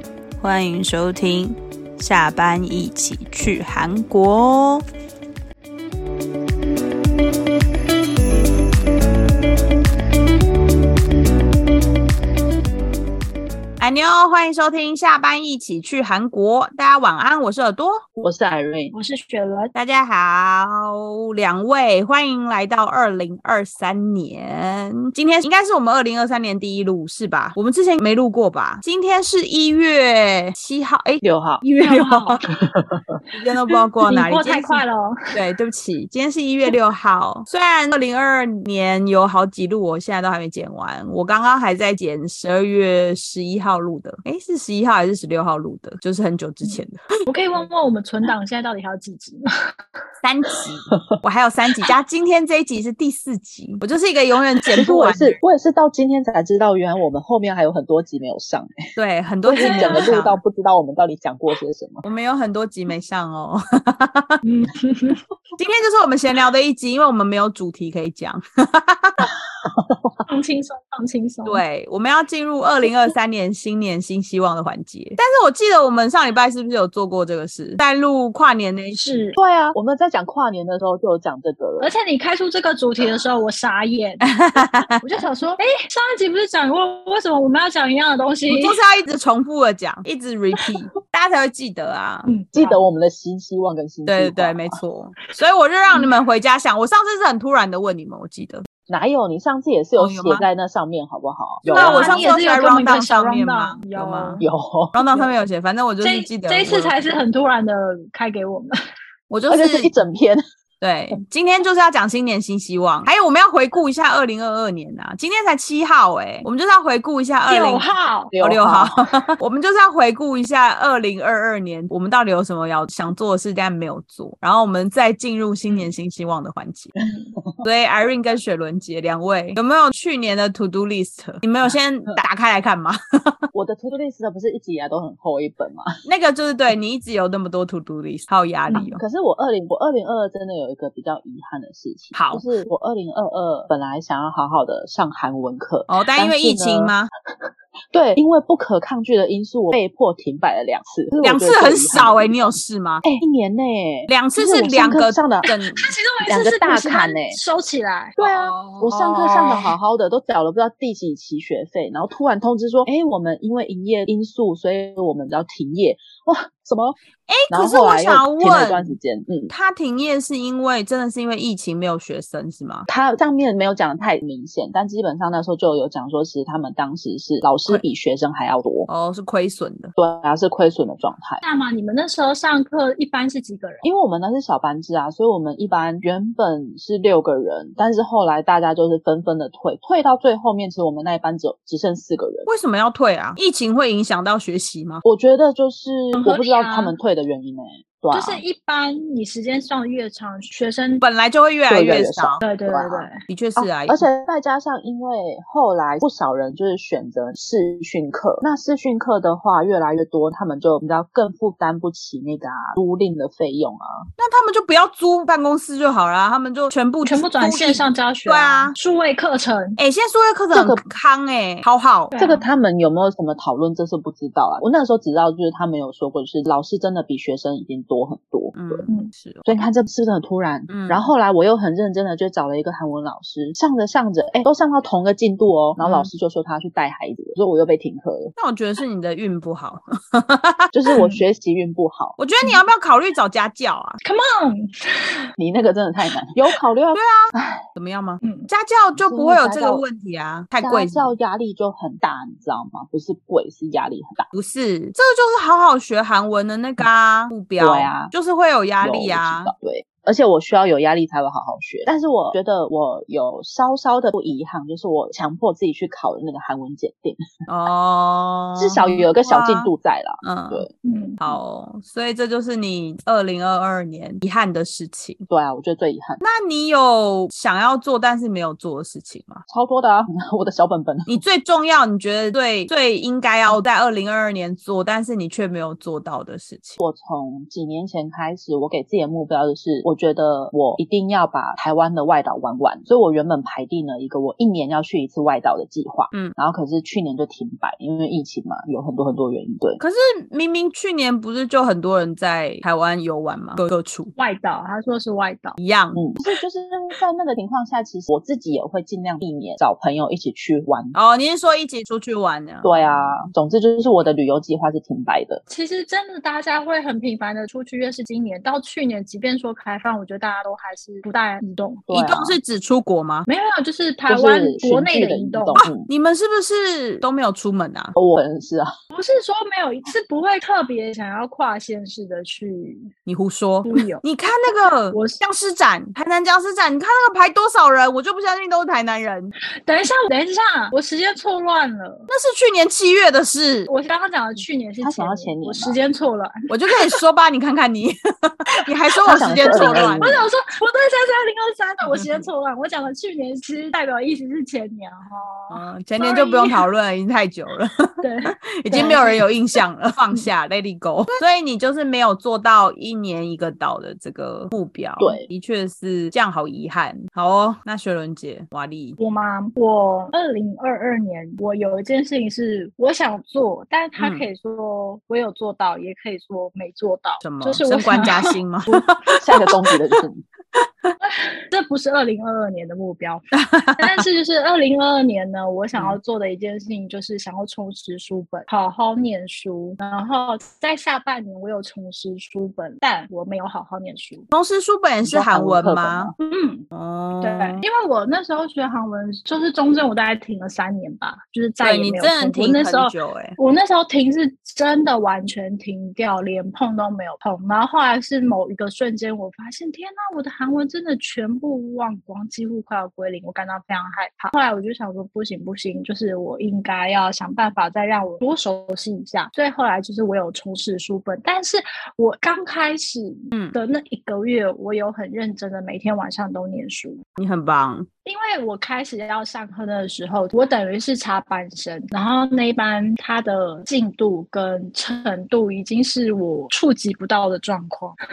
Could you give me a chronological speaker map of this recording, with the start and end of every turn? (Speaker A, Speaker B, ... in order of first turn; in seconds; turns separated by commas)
Speaker A: 0.4-4.8, Speaker A: 13.8-18.0, Speaker B: 18.2-18.9, Speaker C: 18.9-19.7, Speaker A: 19.7-32.4, Speaker B: 31.2-31.6, Speaker C: 31.8-32.5, Speaker B: 32.6-33.7, Speaker A: 33.3-47.0, Speaker C: 34.0-35.2, Speaker C: 46.6-49.4, Speaker A: 50.2-55.4, Speaker B: 54.7-58.8, Speaker A: 59.0-60.4, Speaker B: 59.5-62.0, Speaker C: 59.5-60.1, Speaker A: 62.0-64.4, Speaker C: 64.4-65.2, Speaker A: 65.6-69.3, Speaker B: 69.6-70.1, Speaker C: 70.3-71.6, Speaker A: 71.4-79.0, Speaker C: 78.9-79.4, Speaker B: 79.4-81.9, Speaker C: 81.8-88.8, Speaker A: 84.2-85.0, Speaker A: 88.5-92.3, Speaker C: 92.2-92.8, Speaker B: 92.5-94.8, Speaker A: 94.0-98.7, Speaker C: 95.9-96.2, Speaker B: 98.9-102.3, Speaker A: 100.0-100.5, Speaker C: 101.7-104.5, Speaker A: 101.7-104.4, Speaker B: 104.4-105.3, Speaker A: 105.0-107.0, Speaker C: 106.0-108.7, Speaker A: 109.3-109.9, Speaker B: 109.5-110.4, Speaker A: 110.8-117.9, Speaker C: 117.5-118.3, Speaker B: 118.3-119.0, Speaker A: 118.4-126.9, Speaker C: 127.0-127.3, Speaker A: 127.6-133.5, Speaker B: 133.5-135.9, Speaker A: 136.1-139.0, Speaker B: 138.9-146.9, Speaker A: 142.1-142.5, Speaker A: 145.9-147.1, Speaker B: 147.9-155.4, Speaker A: 151.2-153.0, Speaker A: 154.1-155.9, Speaker C: 155.5-158.2, Speaker B: 156.2-157.4, Speaker A: 158.2-159.7, Speaker B: 158.2-167.0, Speaker A: 167.3-169.0, Speaker B: 167.5-169.5, Speaker A: 169.5-172.9, Speaker B: 172.9-178.9, Speaker A: 178.9-179.9, Speaker B: 180.0-181.4, Speaker C: 181.4-183.8, Speaker B: 183.8-192.5, Speaker A: 192.4-195.0, Speaker B: 195.0-198.4, Speaker C: 196.1-196.9, Speaker C: 198.1-201.0, Speaker A: 201.0-202.4, Speaker B: 201.7-214.1, Speaker C: 202.4-203.2, Speaker A: 203.3-204.1, Speaker A: 214.2-218.7, Speaker C: 217.0-219.8, Speaker A: 219.8-222.1, Speaker B: 220.5-220.8, Speaker C: 222.1-222.4, Speaker B: 222.2-228.8, Speaker A: 228.6-229.6, Speaker B: 229.4-238.3, Speaker A: 230.7-231.1, Speaker A: 235.8-236.1, Speaker A: 238.4-240.7, Speaker B: 240.7-242.2, Speaker C: 240.9-241.2, Speaker A: 242.2-244.0, Speaker C: 244.0-245.2, Speaker B: 245.4-247.7, Speaker A: 246.9-251.1, Speaker C: 248.2-248.5, Speaker B: 248.9-249.8, Speaker B: 250.6-254.3, Speaker A: 254.3-259.5, Speaker B: 257.6-258.1, Speaker B: 258.8-267.2, Speaker A: 267.5-269.7, Speaker B: 268.6-270.7, Speaker A: 270.2-270.7, Speaker C: 270.8-271.3, Speaker A: 271.2-275.2, Speaker B: 275.3-276.2, Speaker A: 276.2-279.4, Speaker B: 279.5-281.2, Speaker A: 281.1-286.8, Speaker B: 286.8-299.8, Speaker A: 299.8-304.1, Speaker C: 304.2-305.6, Speaker A: 305.6-306.1, Speaker B: 306.0-310.9, Speaker A: 310.9-313.3, Speaker B: 312.6-315.4, Speaker C: 315.5-321.9, Speaker B: 321.9-322.4, Speaker A: 321.9-323.3, Speaker C: 323.3-325.6, Speaker B: 324.1-325.9, Speaker A: 325.6-327.9, Speaker B: 327.9-328.7, Speaker C: 328.9-332.9, Speaker A: 333.1-339.3, Speaker C: 333.6-334.0, Speaker C: 334.9-335.2, Speaker C: 339.6-342.1, Speaker A: 342.1-343.7, Speaker C: 343.7-346.9, Speaker B: 344.8-345.8, Speaker A: 346.5-350.1, Speaker B: 349.0-350.3, Speaker C: 349.4-356.6, Speaker A: 351.9-352.2, Speaker A: 355.5-369.0, Speaker C: 358.0-359.2, Speaker B: 365.0-365.2, Speaker C: 369.0-379.2, Speaker A: 374.0-374.2, Speaker A: 377.2-379.7, Speaker B: 379.2-380.2, Speaker C: 381.0-394.3, Speaker A: 383.3-384.0, Speaker A: 394.3-396.1, Speaker B: 395.0-396.1, Speaker C: 396.2-396.7, Speaker A: 396.7-397.6, Speaker C: 397.2-427.0, Speaker A: 401.6-403.4, Speaker A: 427.2-427.9, Speaker C: 428.0-437.9